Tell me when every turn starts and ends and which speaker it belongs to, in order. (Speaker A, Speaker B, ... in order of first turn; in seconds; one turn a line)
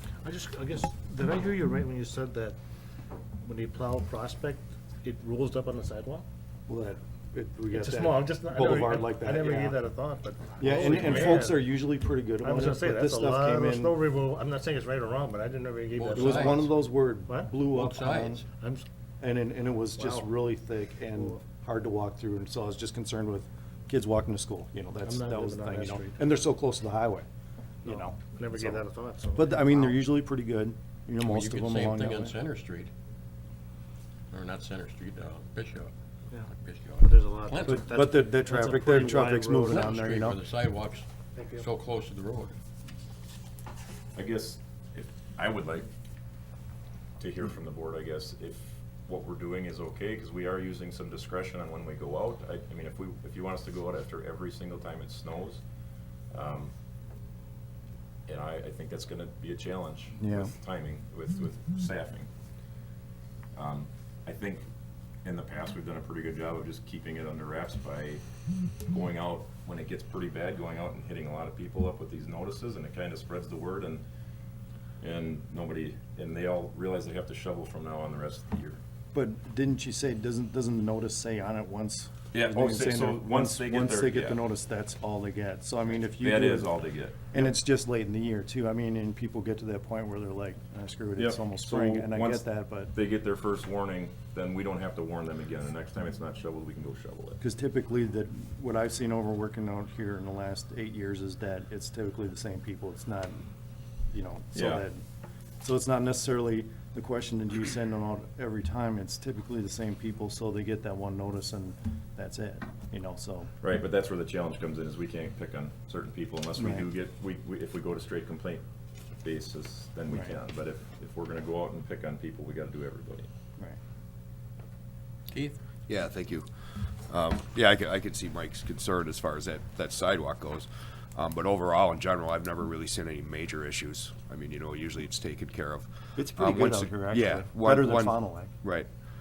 Speaker A: 0.2-2.6
Speaker A: 3.4-6.2
Speaker B: 6.7-9.8
Speaker A: 7.7-11.8
Speaker B: 10.6-14.0
Speaker A: 12.4-16.8
Speaker C: 15.9-16.8
Speaker B: 16.1-18.5
Speaker A: 17.3-17.6
Speaker C: 17.7-18.4
Speaker A: 18.5-18.8
Speaker B: 19.2-27.2
Speaker A: 19.9-20.5
Speaker A: 21.0-21.4
Speaker A: 25.0-26.4
Speaker A: 27.8-30.0
Speaker B: 27.8-32.4
Speaker C: 31.2-32.9
Speaker C: 34.3-35.9
Speaker C: 36.4-37.9
Speaker A: 37.0-40.1
Speaker B: 37.6-40.4
Speaker C: 39.7-42.6
Speaker A: 41.3-41.7
Speaker D: 44.1-45.9
Speaker D: 47.2-55.6
Speaker D: 56.3-56.7
Speaker D: 58.3-62.3
Speaker B: 60.2-60.5
Speaker D: 63.5-64.7
Speaker D: 65.2-68.2
Speaker D: 68.9-74.0
Speaker D: 75.0-78.8
Speaker B: 79.1-86.7
Speaker D: 82.3-84.4
Speaker D: 86.0-87.5
Speaker B: 87.3-92.9
Speaker D: 91.2-97.4
Speaker B: 97.4-103.4
Speaker B: 104.1-105.0
Speaker D: 104.5-104.8
Speaker B: 105.6-113.5
Speaker D: 113.6-118.6
Speaker B: 116.6-116.9
Speaker D: 119.2-123.3
Speaker B: 120.1-120.4
Speaker C: 125.3-125.6
Speaker E: 125.9-126.5
Speaker E: 127.1-138.9
Speaker B: 136.2-138.5